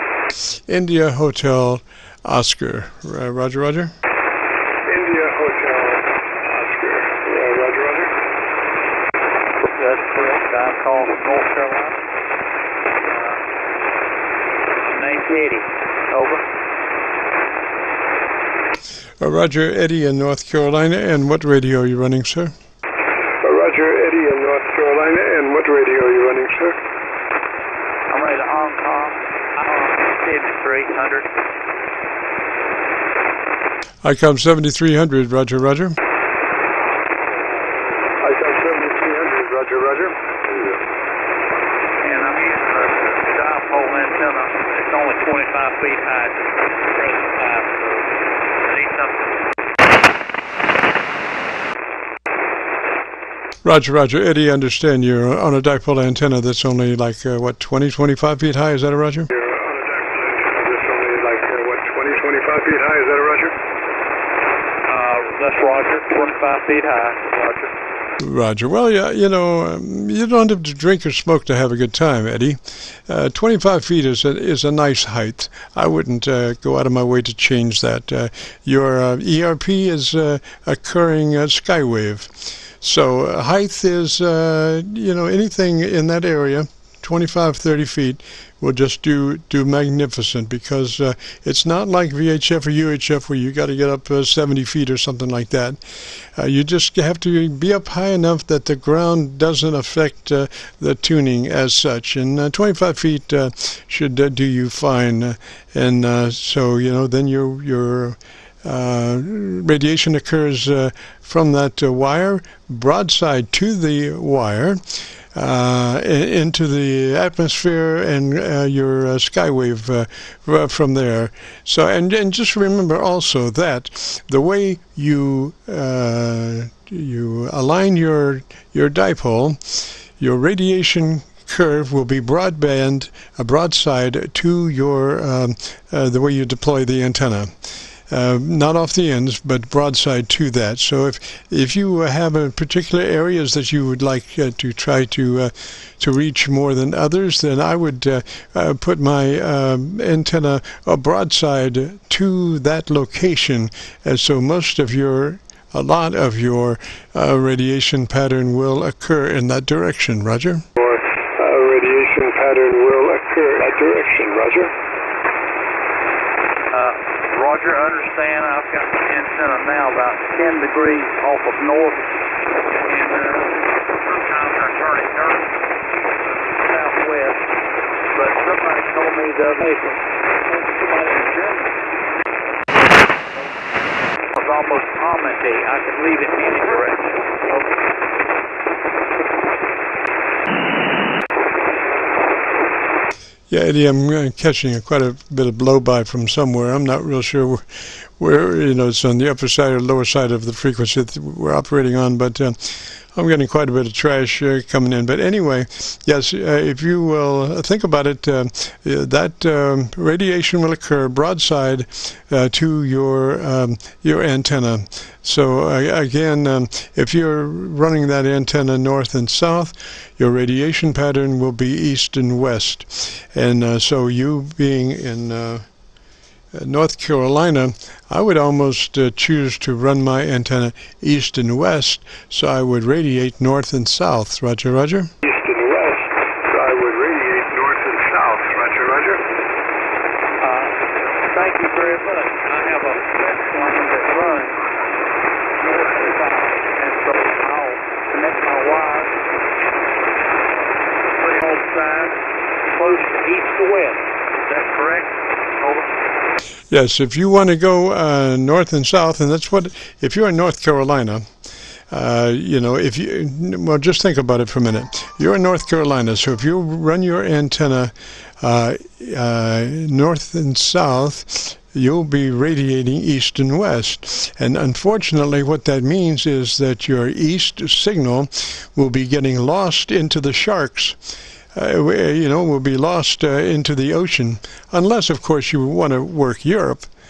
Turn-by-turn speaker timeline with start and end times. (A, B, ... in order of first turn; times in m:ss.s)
0:00.7-0:03.9 A
0:04.9-0:08.1 B
0:09.6-0:12.0 C
0:13.0-0:13.4 C
0:14.8-0:16.4 C
0:19.2-0:22.5 A
0:23.4-0:26.8 B
0:28.1-0:31.3 C
0:34.0-0:36.0 A
0:38.2-0:40.8 B
0:42.0-0:49.4 C
0:53.6-0:59.3 A
0:59.3-1:03.6 B
1:04.8-1:07.7 C
1:08.2-2:17.5 A
2:18.1-2:40.6 A
2:40.8-2:44.7 B
2:46.7-2:57.5 C
2:58.1-3:01.8 C
3:04.3-3:07.7 C
3:13.5-3:45.6 A
3:46.5-3:55.1 A
3:55.2-3:59.2 B
4:00.4-4:04.7 C
4:05.6-4:09.1 C
4:11.2-4:12.2 C
4:12.7-4:15.9 C
4:16.7-4:21.2 A
4:21.9-4:41.0 A
4:41.5-4:46.9 A